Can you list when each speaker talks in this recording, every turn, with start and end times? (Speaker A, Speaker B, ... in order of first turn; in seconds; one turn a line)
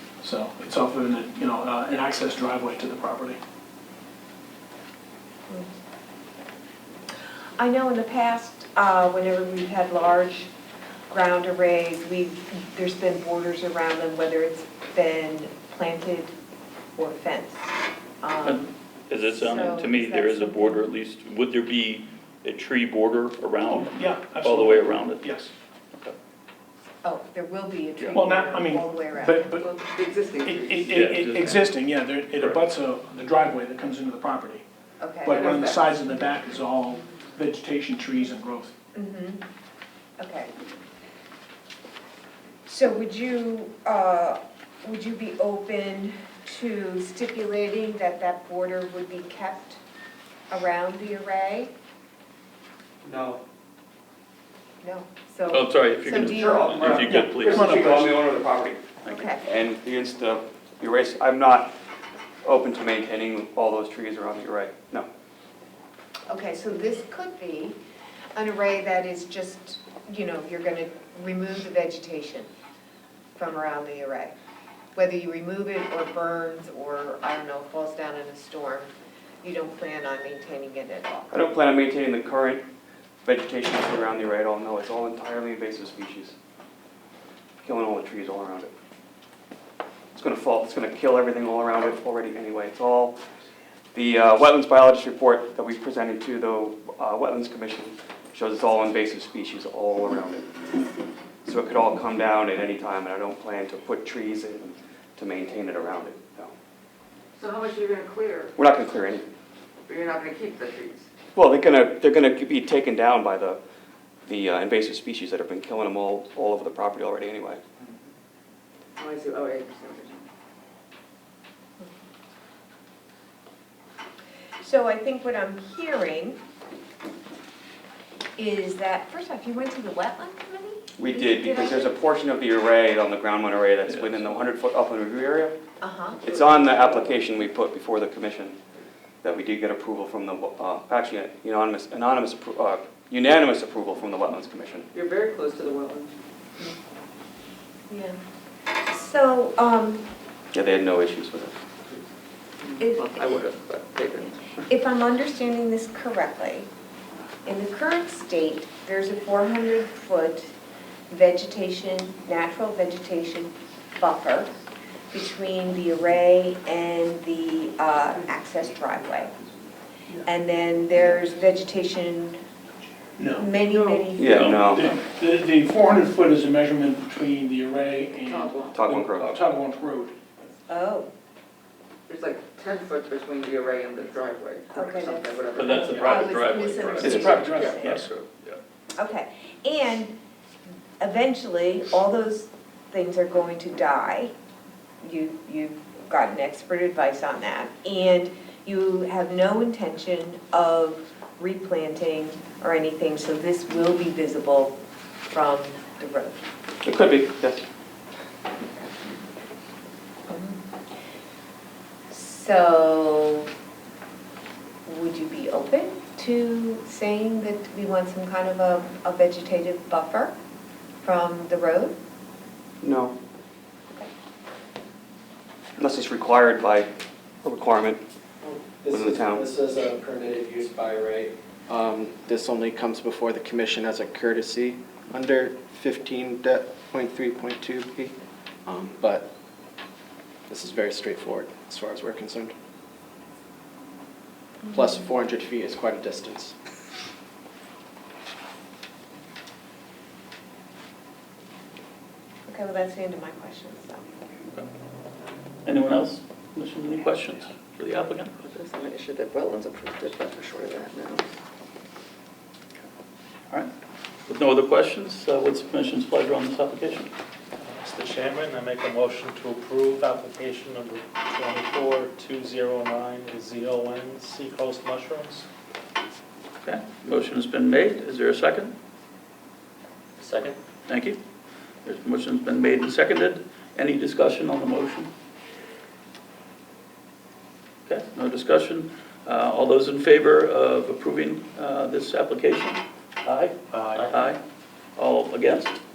Speaker A: 0.2-3.4
Speaker B: 7.6-10.5
Speaker B: 11.1-16.3
Speaker B: 16.9-18.7
Speaker C: 18.4-25.2
Speaker B: 19.2-20.8
Speaker A: 23.7-25.5
Speaker B: 27.0-29.7
Speaker A: 28.1-29.7
Speaker D: 29.6-31.5
Speaker A: 30.4-34.6
Speaker C: 30.9-31.5
Speaker C: 32.3-32.6
Speaker B: 35.0-35.7
Speaker A: 35.2-38.7
Speaker D: 35.3-35.7
Speaker B: 38.9-39.4
Speaker B: 40.2-40.5
Speaker B: 42.6-49.8
Speaker B: 50.5-51.7
Speaker E: 53.0-53.4
Speaker B: 54.8-57.0
Speaker C: 55.5-57.8
Speaker E: 56.3-61.7
Speaker A: 56.7-58.2
Speaker B: 59.1-59.4
Speaker E: 62.4-65.1
Speaker B: 66.3-67.8
Speaker B: 68.3-72.5
Speaker B: 73.3-74.3
Speaker B: 74.9-78.9
Speaker B: 79.4-81.4
Speaker E: 81.3-82.6
Speaker E: 83.2-86.3
Speaker E: 87.6-88.7
Speaker E: 90.1-93.2
Speaker E: 93.9-100.5
Speaker E: 101.4-106.5
Speaker D: 107.3-108.5
Speaker E: 108.5-109.3
Speaker D: 109.9-111.0
Speaker E: 111.3-113.6
Speaker E: 114.2-117.6
Speaker D: 119.0-120.2
Speaker B: 124.6-126.4
Speaker B: 128.4-132.0
Speaker E: 130.9-135.6
Speaker B: 135.8-136.3
Speaker E: 136.2-138.6
Speaker E: 139.2-144.9
Speaker D: 144.9-146.1
Speaker B: 147.9-148.2
Speaker B: 148.8-150.1
Speaker E: 150.5-151.6
Speaker D: 152.6-154.3
Speaker B: 152.8-153.2
Speaker B: 154.7-156.7
Speaker B: 157.4-160.5
Speaker B: 161.1-164.5
Speaker B: 165.1-169.3
Speaker B: 170.2-172.4
Speaker A: 173.2-173.5
Speaker B: 173.4-174.6
Speaker E: 174.2-174.9
Speaker A: 174.3-180.1
Speaker C: 174.3-174.7
Speaker D: 178.3-178.8
Speaker E: 178.7-179.3
Speaker B: 180.7-181.1
Speaker D: 182.1-186.3
Speaker B: 184.7-187.9
Speaker C: 185.5-188.6
Speaker E: 187.0-187.5
Speaker A: 187.0-188.1
Speaker B: 189.0-190.1
Speaker B: 191.0-194.3
Speaker B: 195.0-204.8
Speaker B: 205.3-206.4
Speaker E: 206.8-207.6
Speaker B: 210.3-210.6
Speaker B: 212.1-213.5
Speaker B: 214.8-220.3
Speaker B: 221.0-222.0
Speaker E: 222.8-223.2
Speaker E: 225.8-228.0
Speaker F: 228.4-238.1
Speaker E: 228.9-229.5
Speaker F: 238.7-239.3
Speaker F: 240.5-242.5
Speaker F: 244.7-246.5
Speaker B: 252.5-254.0
Speaker C: 255.6-258.3
Speaker D: 258.4-261.2
Speaker C: 264.3-267.1
Speaker G: 267.6-275.5
Speaker C: 276.6-278.7
Speaker C: 280.9-281.2
Speaker C: 281.8-285.1
Speaker C: 287.9-294.4
Speaker A: 293.7-294.0
Speaker C: 294.9-295.8